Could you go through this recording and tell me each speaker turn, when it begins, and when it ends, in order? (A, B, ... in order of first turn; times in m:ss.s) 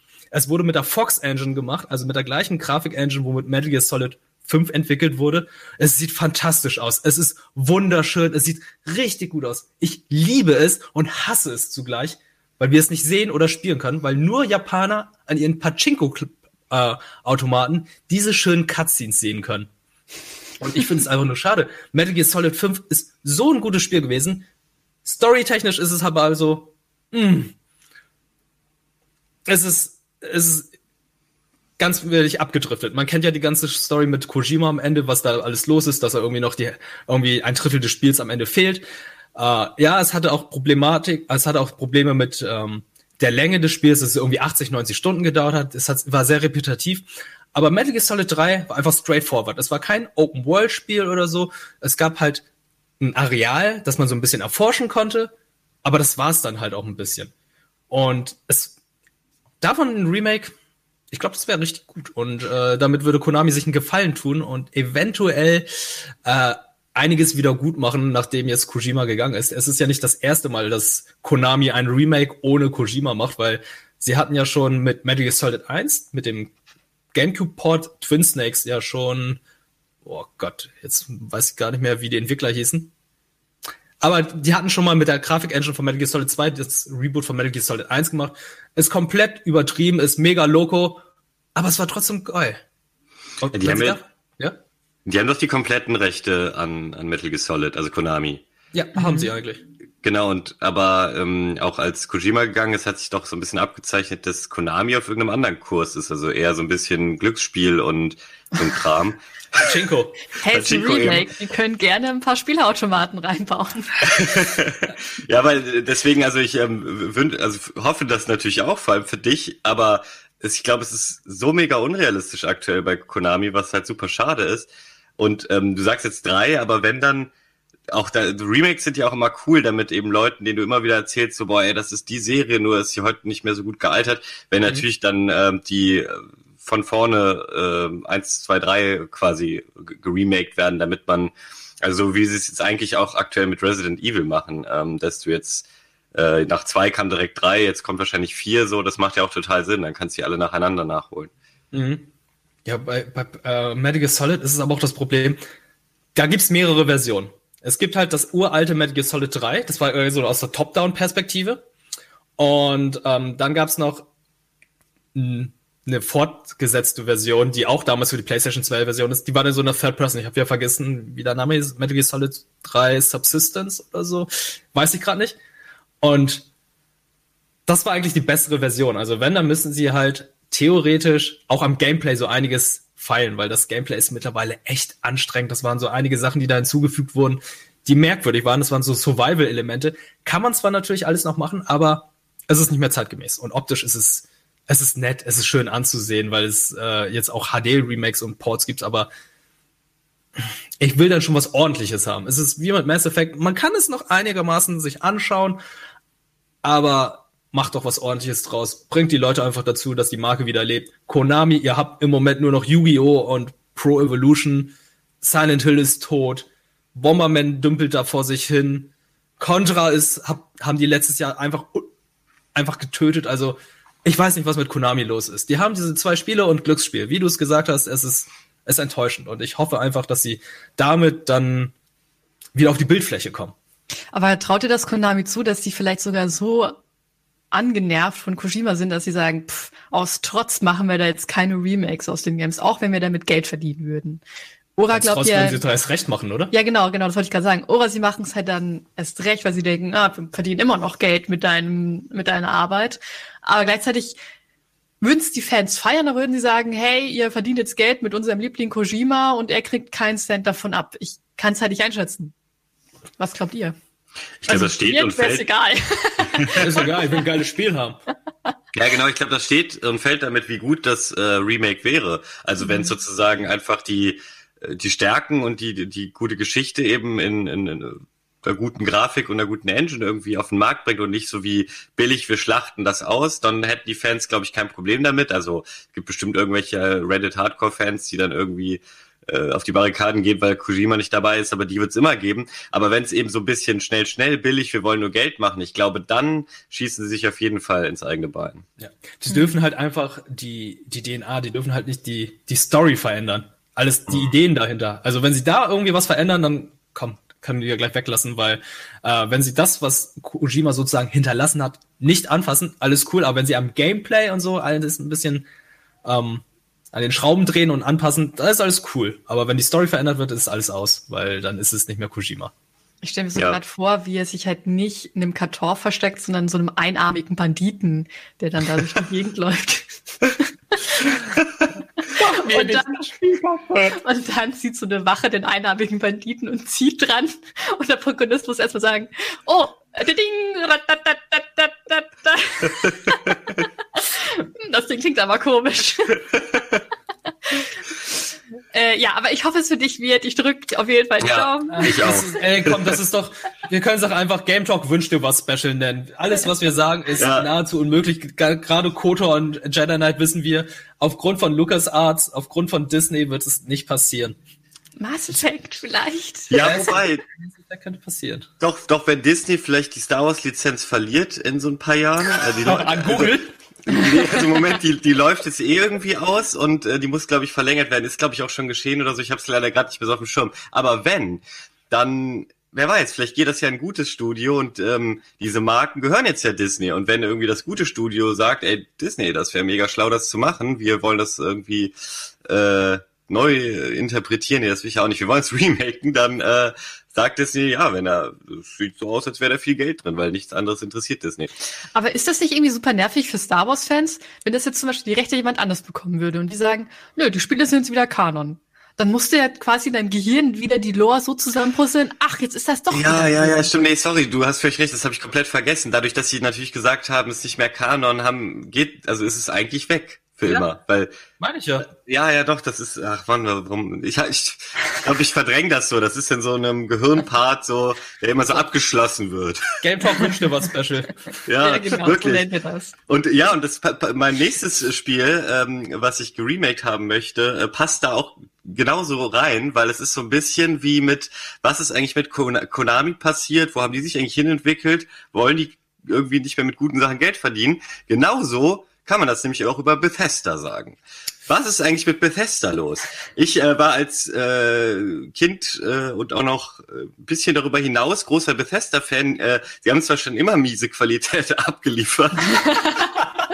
0:00.3-0:19.7 A
0:20.6-0:24.4 A
0:25.0-0:27.5 A
0:29.5-0:30.7 A
0:31.8-0:38.8 A
0:39.4-0:52.4 A
0:53.0-0:55.3 A
0:55.8-0:57.3 A
0:57.9-0:58.8 A
0:59.6-1:00.5 A
1:01.1-1:05.7 A
1:06.2-1:16.5 A
1:17.1-1:19.4 A
1:20.0-1:22.9 A
1:24.0-1:31.0 A
1:31.6-1:32.6 A
1:33.4-1:34.6 A
1:33.5-1:34.0 B
1:35.1-1:38.4 B
1:38.7-1:39.6 A
1:39.0-1:39.3 C
1:40.0-1:49.2 B
1:49.6-1:51.2 A
1:50.4-1:54.4 C
1:50.5-1:51.2 B
1:54.1-2:07.3 B
2:07.9-2:31.3 B
2:31.7-2:32.1 A
2:32.6-2:35.4 A
2:36.2-2:41.6 A
2:42.4-2:44.1 A
2:45.2-2:55.4 A
2:56.0-2:56.5 A
2:57.7-3:19.1 A
3:20.8-3:25.6 A
3:26.6-3:41.9 A
3:42.6-3:51.7 A
3:52.6-3:53.6 A
3:54.1-3:56.8 C
3:57.5-4:04.2 C
4:04.8-4:05.6 C
4:04.9-4:06.5 A
4:06.5-4:14.2 C
4:15.0-4:22.3 C
4:23.2-4:23.8 C
4:24.4-4:25.5 B
4:24.5-4:27.0 C
4:26.4-4:26.6 B
4:26.5-4:28.0 A
4:28.7-4:58.6 B
4:32.6-4:32.9 C
4:58.8-5:15.5 A
5:16.0-5:22.5 A
5:23.0-5:30.4 C
5:32.0-5:43.4 C
5:32.2-5:32.9 A
5:44.0-5:46.3 C
5:48.7-5:52.4 C
5:51.2-5:53.0 B
5:51.7-6:04.4 A
5:57.2-5:57.5 B
6:05.0-6:06.8 C
6:06.5-6:07.2 B
6:06.5-6:08.5 A
6:08.6-6:13.4 B
6:12.6-6:13.5 A
6:13.9-6:41.5 B
6:41.9-6:53.7 C
6:52.9-7:01.1 B
7:01.4-7:01.9 A
7:01.9-7:09.8 B
7:09.8-7:11.3 A
7:11.5-7:12.5 B
7:11.6-7:12.9 C
7:13.1-7:42.8 B
7:42.6-7:43.1 C